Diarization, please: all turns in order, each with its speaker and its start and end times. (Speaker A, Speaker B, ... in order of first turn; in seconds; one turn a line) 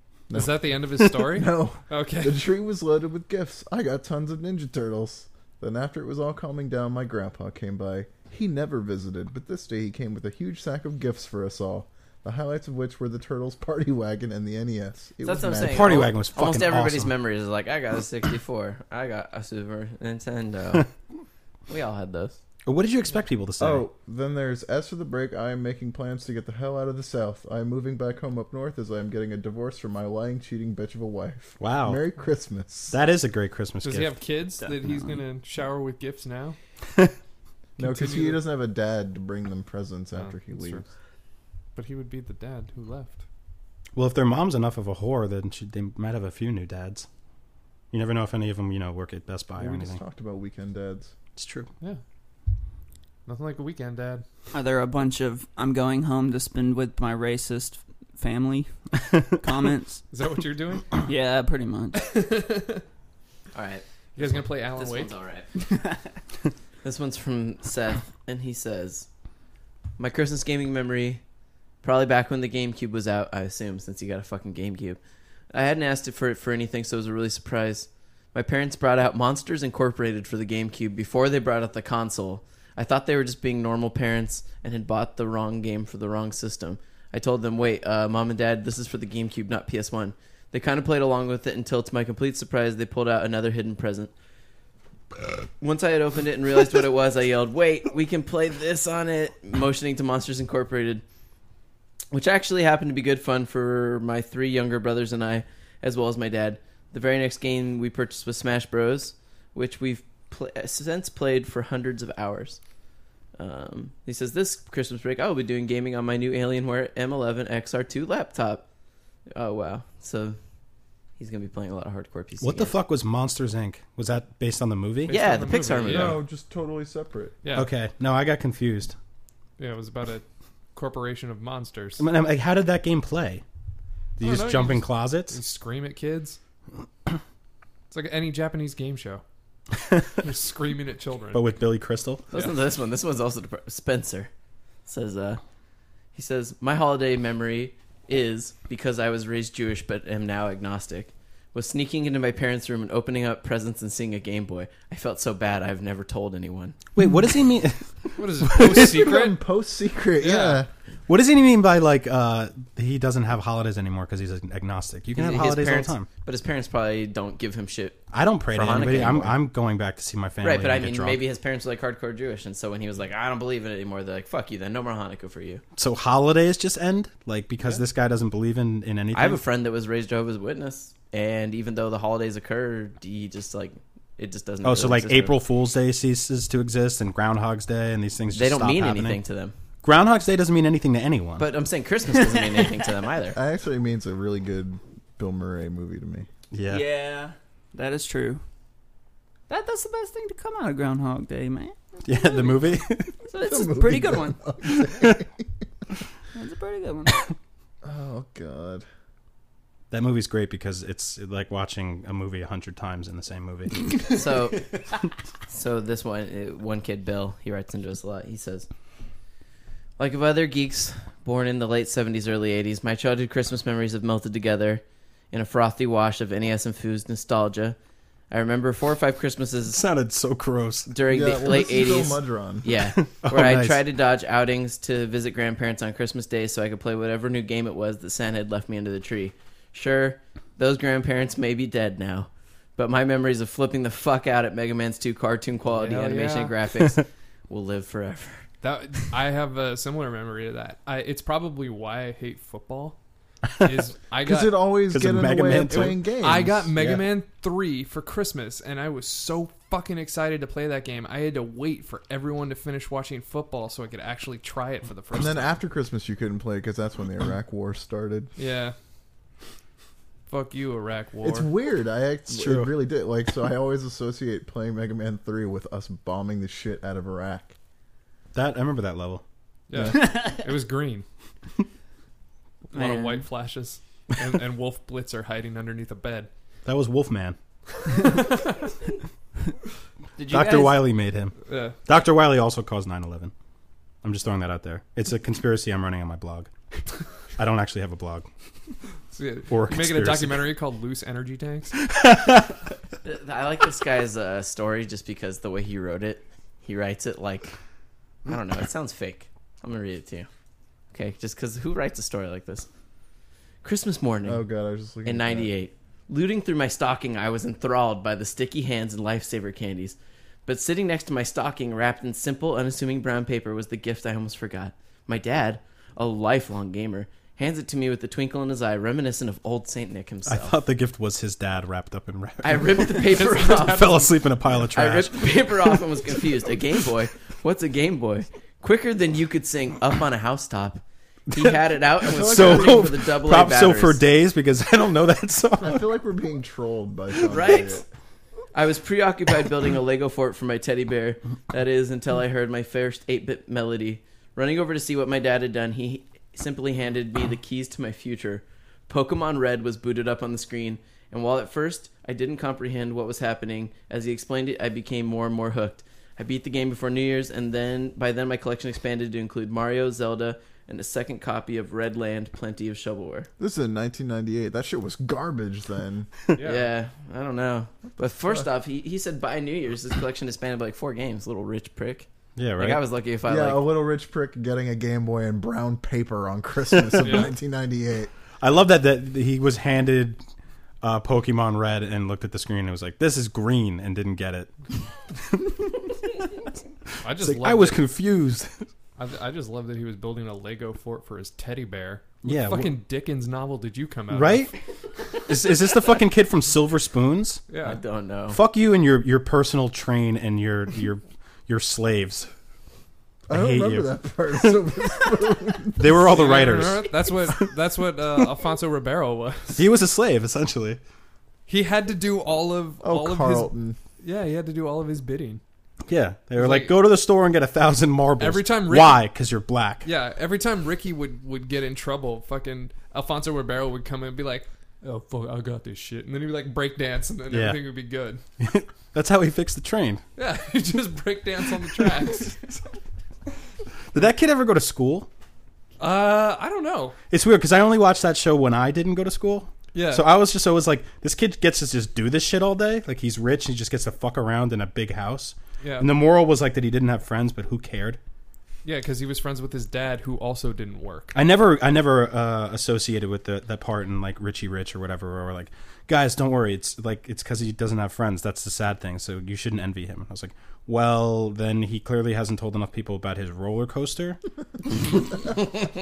Speaker A: 0.3-16.1
Speaker B: 0.3-2.5
Speaker C: 15.2-20.9
Speaker D: 15.6-17.1
Speaker C: 21.7-22.4
Speaker D: 22.6-23.8
Speaker A: 23.6-32.9
Speaker D: 31.6-32.1
Speaker D: 32.9-34.2
Speaker B: 33.8-36.6
Speaker E: 34.6-35.1
Speaker B: 37.8-38.4
Speaker A: 37.8-40.8
Speaker B: 40.1-40.8
Speaker B: 41.7-43.2
Speaker D: 44.0-47.1
Speaker D: 47.9-50.0
Speaker A: 49.6-51.1
Speaker D: 51.4-51.7
Speaker B: 53.2-54.2
Speaker E: 54.5-60.0
Speaker B: 60.1-61.0
Speaker E: 61.0-62.0
Speaker B: 62.0-62.8
Speaker C: 63.5-65.5
Speaker B: 64.2-65.1
Speaker C: 66.8-69.1
Speaker C: 70.0-71.2
Speaker C: 71.8-75.0
Speaker C: 75.5-94.1
Speaker C: 95.6-101.0
Speaker C: 102.1-112.6
Speaker C: 113.4-118.7
Speaker C: 119.3-120.4
Speaker C: 121.2-122.7
Speaker D: 122.4-125.2
Speaker B: 125.1-126.2
Speaker C: 125.1-126.2
Speaker A: 125.8-127.3
Speaker B: 127.4-127.7
Speaker D: 127.5-128.9
Speaker B: 129.6-132.0
Speaker D: 132.0-133.4
Speaker D: 134.2-135.4
Speaker B: 134.2-136.4
Speaker B: 137.9-139.2
Speaker D: 139.8-140.2
Speaker B: 140.2-141.4
Speaker D: 141.3-142.3
Speaker C: 142.3-144.3
Speaker C: 144.8-145.4
Speaker C: 146.1-156.8
Speaker D: 156.9-158.9
Speaker B: 158.2-159.4
Speaker A: 158.6-160.7
Speaker B: 160.2-160.6
Speaker D: 161.1-166.1
Speaker C: 165.1-169.4
Speaker D: 168.1-171.2
Speaker C: 170.4-175.6
Speaker D: 175.8-179.4
Speaker C: 179.1-185.4
Speaker D: 184.6-189.2
Speaker C: 188.3-189.5
Speaker D: 189.8-191.4
Speaker C: 191.4-193.4
Speaker A: 193.3-196.3
Speaker D: 196.5-196.8
Speaker E: 196.7-198.4
Speaker E: 199.5-202.6
Speaker D: 202.0-203.2
Speaker E: 203.2-204.4
Speaker A: 203.3-205.3
Speaker D: 204.6-205.2
Speaker E: 206.3-207.2
Speaker A: 207.8-208.8
Speaker D: 209.9-214.0
Speaker C: 214.0-214.7
Speaker C: 215.5-218.7
Speaker C: 220.0-227.8
Speaker C: 228.3-229.8
Speaker D: 229.7-230.9
Speaker C: 230.9-248.5
Speaker A: 231.1-232.7
Speaker D: 232.9-233.8
Speaker B: 245.7-246.5
Speaker B: 248.6-253.0
Speaker B: 253.6-254.7
Speaker A: 254.2-256.7
Speaker D: 254.9-256.1
Speaker B: 256.2-265.6
Speaker D: 256.7-257.1
Speaker A: 265.1-268.3
Speaker B: 268.4-268.7
Speaker B: 270.3-271.5
Speaker A: 271.2-277.5
Speaker D: 272.3-272.7
Speaker D: 278.3-279.2
Speaker B: 279.7-281.0
Speaker A: 279.7-280.1
Speaker B: 282.7-286.3
Speaker E: 282.7-283.2
Speaker D: 286.6-287.4
Speaker B: 287.9-288.6
Speaker E: 290.2-290.8
Speaker D: 290.3-293.3
Speaker B: 291.5-291.8
Speaker D: 294.0-296.5
Speaker D: 297.4-298.3
Speaker B: 299.1-301.7
Speaker D: 299.5-300.5
Speaker D: 301.8-302.6
Speaker C: 303.0-307.6
Speaker C: 308.2-310.3
Speaker C: 310.9-312.7
Speaker C: 313.6-314.4
Speaker A: 314.2-315.5
Speaker C: 315.0-330.6
Speaker D: 330.2-335.9
Speaker C: 332.4-334.1
Speaker B: 333.0-334.0
Speaker C: 334.7-344.0
Speaker A: 342.1-342.9
Speaker D: 342.1-345.8
Speaker A: 345.6-347.8
Speaker C: 347.3-347.8
Speaker C: 348.5-373.3
Speaker A: 373.4-376.1
Speaker B: 376.3-376.7
Speaker C: 376.4-383.6
Speaker D: 382.4-382.8
Speaker A: 383.2-388.1
Speaker D: 386.8-387.2
Speaker B: 387.0-387.3
Speaker D: 388.4-390.2
Speaker D: 390.8-394.5
Speaker B: 397.0-397.8
Speaker D: 397.0-398.6
Speaker B: 399.0-404.6
Speaker D: 402.2-402.7
Speaker D: 404.1-404.5
Speaker D: 405.3-407.4
Speaker B: 407.5-407.8
Speaker C: 407.6-408.4
Speaker D: 408.3-412.3
Speaker A: 413.3-415.9
Speaker D: 413.3-413.9
Speaker D: 415.8-417.4
Speaker B: 416.0-419.6
Speaker D: 419.6-420.8
Speaker B: 421.5-425.4
Speaker A: 422.8-423.8
Speaker D: 425.9-429.9
Speaker B: 426.4-426.7
Speaker B: 428.2-429.0
Speaker B: 429.8-438.2
Speaker D: 437.3-437.6
Speaker D: 438.4-440.0
Speaker B: 440.1-442.5
Speaker D: 443.9-445.1
Speaker B: 445.8-446.9
Speaker D: 447.1-458.0
Speaker B: 449.7-450.0
Speaker B: 455.6-455.9
Speaker B: 458.6-461.1
Speaker D: 461.1-474.2
Speaker D: 474.8-475.3